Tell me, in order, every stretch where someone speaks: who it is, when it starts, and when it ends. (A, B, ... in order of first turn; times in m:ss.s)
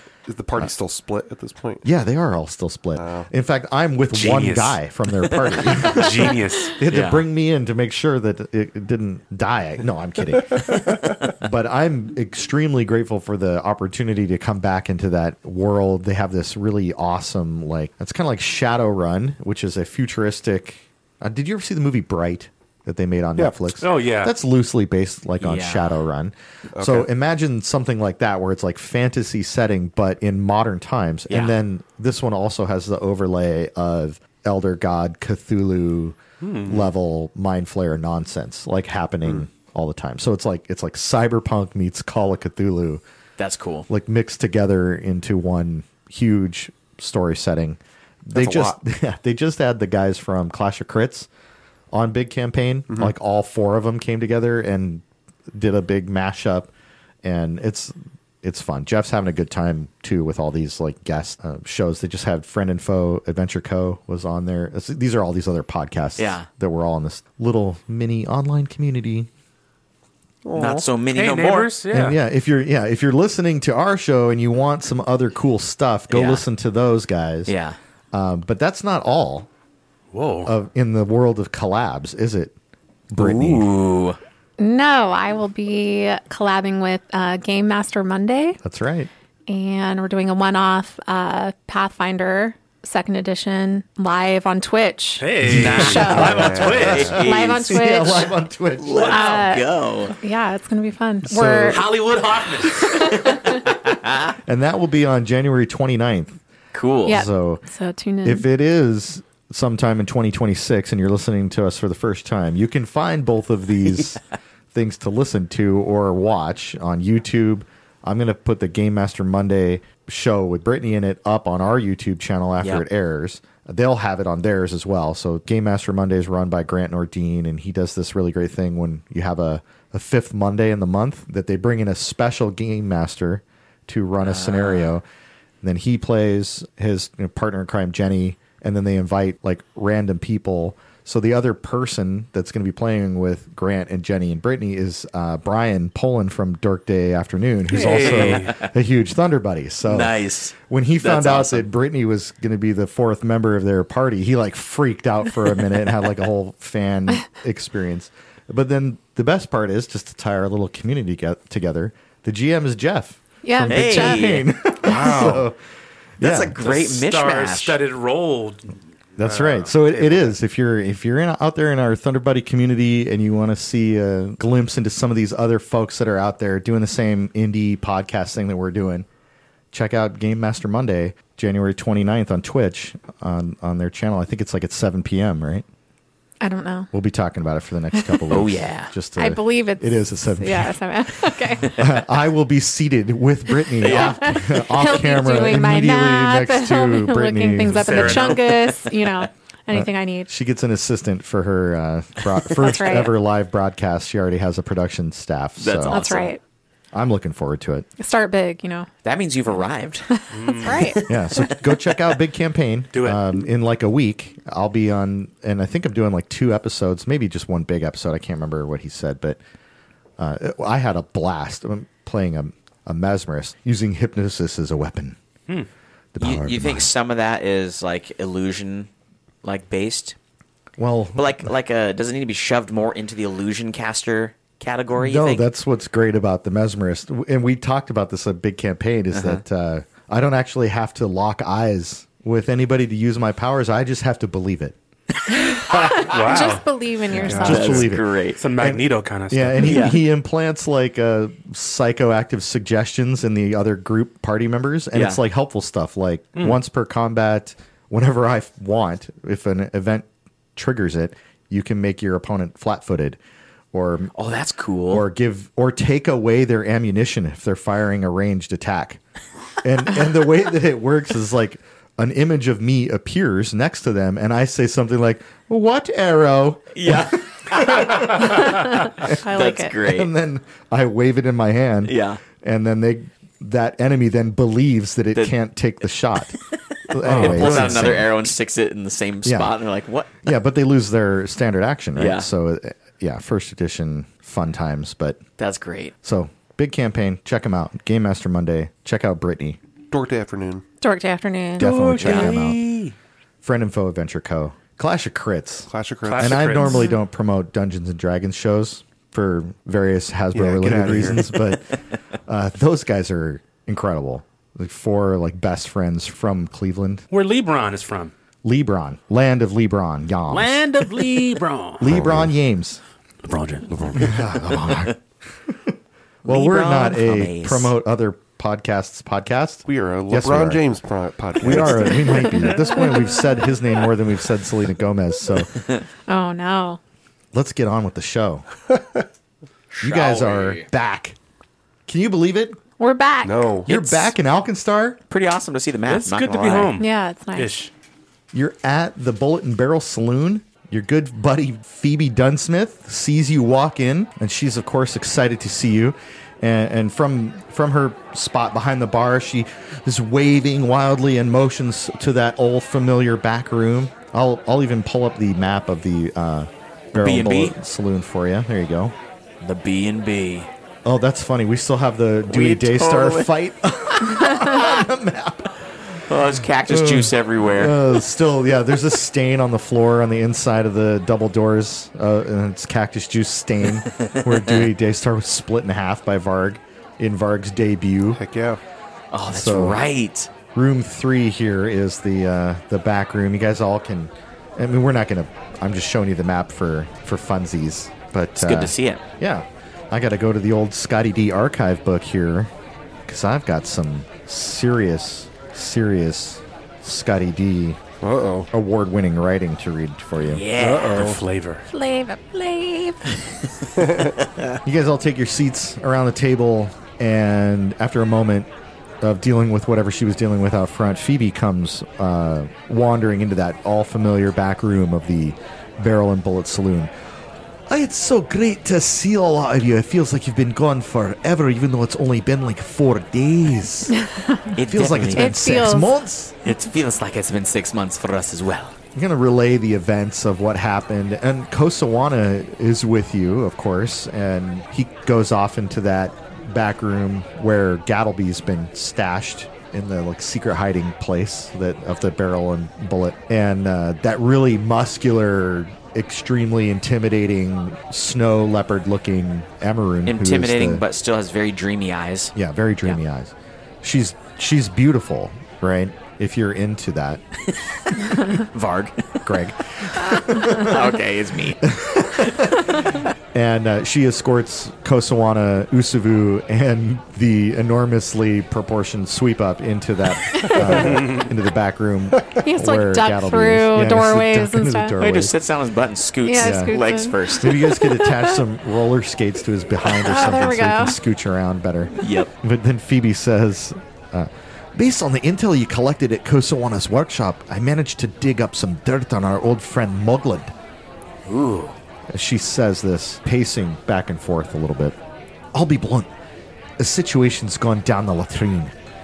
0:00.2-0:01.8 A
0:01.8-0:43.0 B
0:03.0-0:03.3 A
0:04.1-0:04.8 C
0:05.7-0:06.8 C
0:06.9-0:07.2 D
0:23.8-0:24.4 C
0:25.4-0:26.0 D
0:26.8-0:27.1 A
0:36.4-0:36.9 C
0:43.4-0:43.9 D
0:43.9-0:51.3 B
0:48.3-0:48.8 A
0:51.9-0:56.7 B
0:52.9-0:53.1 A
0:57.2-1:09.3 B
1:06.2-1:06.5 D
1:10.5-1:10.8 A
1:10.5-1:11.8 D
1:11.0-1:12.2 C
1:11.9-1:17.5 B
1:16.1-1:16.4 D
1:17.5-1:17.8 D
1:18.1-1:19.5 B
1:20.1-1:20.5 C
1:20.4-1:22.5 B
1:23.1-1:23.7 B
1:23.2-1:24.2 D
1:24.6-1:28.6 E
1:28.6-1:29.1 B
1:29.5-1:39.7 E
1:35.2-1:37.2 C
1:35.4-1:38.1 D
1:36.2-1:37.2 A
1:37.6-1:39.1 B
1:38.8-1:40.2 D
1:40.2-1:41.8 E
1:41.2-1:42.0 B
1:41.7-1:43.2 C
1:43.8-1:44.3 D
1:44.4-1:46.4 B
1:46.7-1:47.3 D
1:47.1-1:48.4 E
1:47.1-1:47.6 B
1:48.2-1:54.2 B
1:54.7-2:15.0 B
2:14.2-2:14.9 D
2:15.6-2:30.2 B
2:27.7-2:28.6 C
2:27.8-2:28.7 D
2:29.8-2:31.6 D
2:30.7-2:45.6 B
2:43.4-2:44.5 E
2:43.6-2:44.4 D
2:44.8-2:45.4 A
2:46.2-2:46.6 B
2:46.2-2:47.8 D
2:46.6-2:50.4 C
2:49.2-2:59.1 B
2:59.7-3:05.6 B
3:06.4-3:06.9 E
3:06.9-3:18.4 B
3:08.0-3:08.4 E
3:08.3-3:08.9 D
3:09.2-3:12.0 E
3:13.8-3:20.3 E
3:13.8-3:14.4 D
3:17.8-3:18.4 C
3:17.9-3:19.2 D
3:19.7-3:26.2 B
3:22.4-3:23.1 E
3:25.6-3:26.3 D
3:25.9-3:26.4 E
3:26.9-3:27.9 B
3:28.0-3:28.9 E
3:29.0-3:31.7 D
3:30.1-3:31.0 E
3:30.3-3:31.0 C
3:31.1-3:39.4 B
3:32.9-3:33.4 C
3:40.2-3:45.2 B
3:46.2-3:46.9 B
3:46.2-3:48.9 D
3:49.4-3:50.2 D
3:50.8-3:51.5 B
3:51.2-3:55.5 D
3:54.9-4:04.7 B
3:59.1-3:59.4 D
4:05.3-4:07.9 E
4:06.0-4:09.9 C
4:07.1-4:23.2 B
4:07.4-4:08.4 D
4:09.6-4:10.0 D
4:14.9-4:15.2 D
4:23.7-4:24.1 B
4:24.2-4:25.0 D
4:24.9-4:29.0 B
4:29.6-4:39.2 B
4:36.7-4:40.1 D
4:38.1-4:39.8 E
4:39.8-4:46.4 B
4:41.8-4:42.2 D
4:46.9-4:48.1 B
4:47.0-4:50.2 D
4:47.0-4:47.9 C
4:49.2-4:49.5 B
4:50.2-4:55.2 B
4:52.0-4:52.3 D
4:55.4-4:55.9 D
4:56.0-4:59.6 B
4:59.9-5:00.6 A
5:00.8-5:01.7 E
5:01.6-5:02.6 B
5:01.6-5:02.9 C
5:02.0-5:02.4 D
5:03.4-5:11.7 B
5:05.7-5:06.5 A
5:06.1-5:06.9 C
5:06.7-5:06.9 E
5:10.3-5:11.4 A
5:12.3-5:17.1 B
5:17.1-5:18.1 C
5:18.4-5:21.2 B
5:20.3-5:22.3 C
5:21.8-5:22.8 B
5:23.2-5:24.7 C
5:23.9-5:25.0 B
5:26.2-5:27.7 D
5:26.2-5:30.7 B
5:29.6-5:32.4 A
5:31.4-5:35.7 B
5:36.1-5:36.8 E
5:37.3-5:38.4 B
5:39.7-5:40.7 D
5:39.8-5:41.2 B
5:41.9-5:42.6 B
5:42.8-5:43.5 E
5:43.2-5:43.7 A
5:43.7-5:44.1 D
5:43.7-5:45.0 B
5:45.1-5:46.8 D
5:45.9-5:47.7 C
5:46.8-5:47.6 E
5:48.3-6:08.9 B
6:06.9-6:07.6 D
6:09.4-6:10.5 D
6:10.8-6:15.5 B
6:12.3-6:13.3 D
6:16.1-6:17.8 D
6:16.7-6:28.2 B
6:28.1-6:28.6 A
6:29.1-6:30.3 D
6:29.3-6:29.8 B
6:30.5-6:42.5 B
6:38.4-6:39.0 D
6:43.1-6:47.8 B
6:48.0-6:48.5 A
6:48.5-6:50.4 B
6:50.2-6:51.0 D
6:50.6-6:51.2 A
6:50.6-6:51.6 C
6:51.7-6:53.0 E
6:53.8-6:54.1 A
6:54.6-6:58.5 B
6:59.0-7:06.9 B
7:07.7-7:13.9 B
7:14.0-7:14.4 E
7:14.5-7:15.5 D
7:14.7-7:16.3 B
7:15.1-7:16.0 E
7:16.4-7:18.7 D
7:18.9-7:40.8 B
7:40.1-7:43.0 D
7:42.3-7:47.2 B
7:47.9-7:49.2 D
7:49.2-7:50.8 B
7:49.9-7:51.6 D
7:51.6-8:05.3 B
8:00.3-8:00.7 E
8:00.8-8:01.3 C
8:02.4-8:04.9 E
8:05.0-8:07.8 D
8:06.2-8:08.4 E
8:06.4-8:06.7 B
8:07.4-8:20.5 B
8:09.8-8:11.0 E
8:12.0-8:12.3 D
8:21.2-8:21.7 D
8:22.1-8:24.9 B
8:25.5-8:26.1 B
8:26.8-8:28.7 B